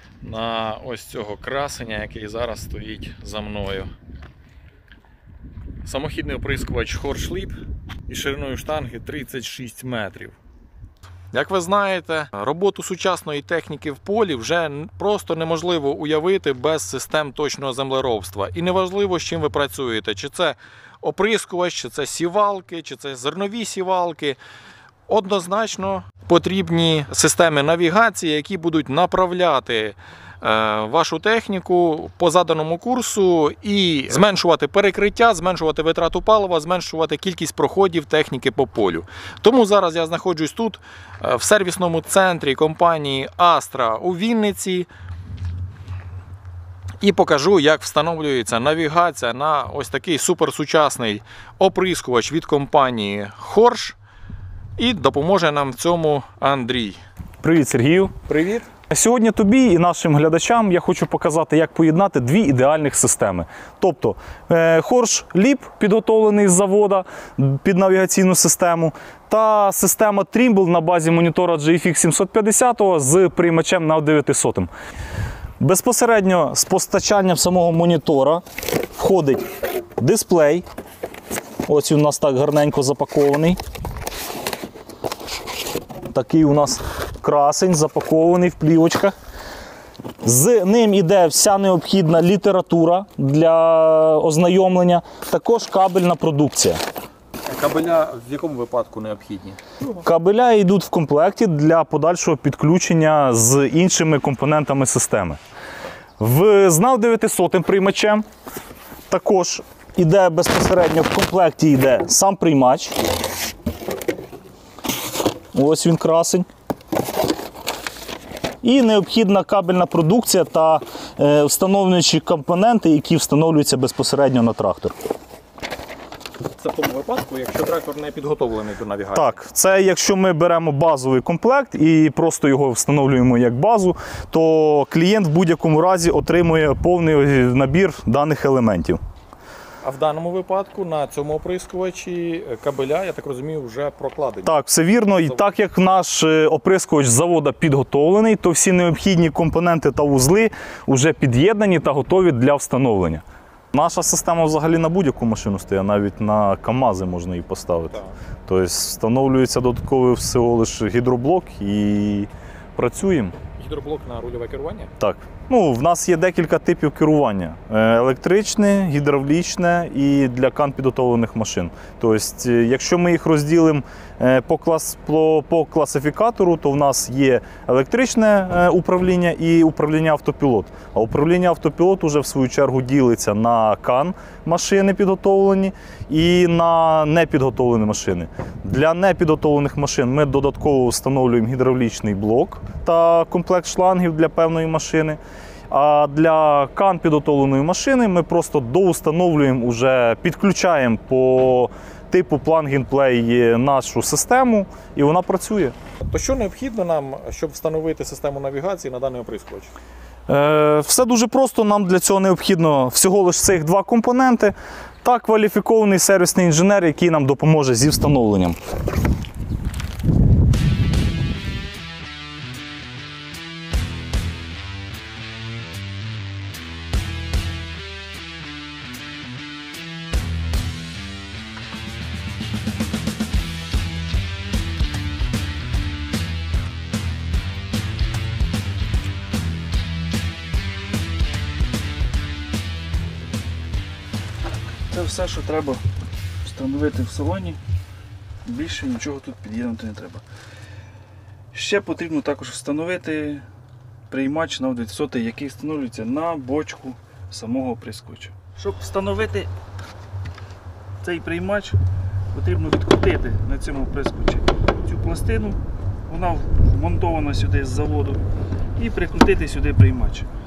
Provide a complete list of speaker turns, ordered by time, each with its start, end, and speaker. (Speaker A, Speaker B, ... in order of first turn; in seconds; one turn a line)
Speaker A: 0.2-3.9
Speaker A: 5.8-10.4
Speaker A: 11.3-24.4
Speaker A: 25.1-44.9
Speaker A: 47.0-54.0
Speaker A: 54.8-57.0
Speaker B: 57.4-58.1
Speaker A: 58.3-58.7
Speaker B: 58.9-74.7
Speaker B: 75.6-80.6
Speaker B: 81.7-83.6
Speaker B: 86.1-89.2
Speaker B: 90.2-96.8
Speaker A: 97.5-99.6
Speaker B: 100.0-105.4
Speaker B: 106.2-108.2
Speaker B: 109.1-113.0
Speaker B: 115.5-116.5
Speaker B: 118.6-124.9
Speaker A: 126.6-129.4
Speaker B: 129.2-139.0
Speaker A: 139.8-144.6
Speaker B: 144.5-158.0
Speaker B: 158.5-163.3
Speaker A: 163.6-164.9
Speaker B: 165.0-195.2
Speaker B: 195.7-205.8
Speaker A: 206.0-209.7
Speaker B: 210.3-218.6
Speaker C: 244.9-245.8
Speaker C: 246.4-247.6
Speaker C: 248.4-250.2
Speaker C: 251.5-253.5
Speaker C: 254.1-259.5
Speaker C: 261.0-261.8
Speaker C: 262.3-268.2
Speaker C: 268.8-270.3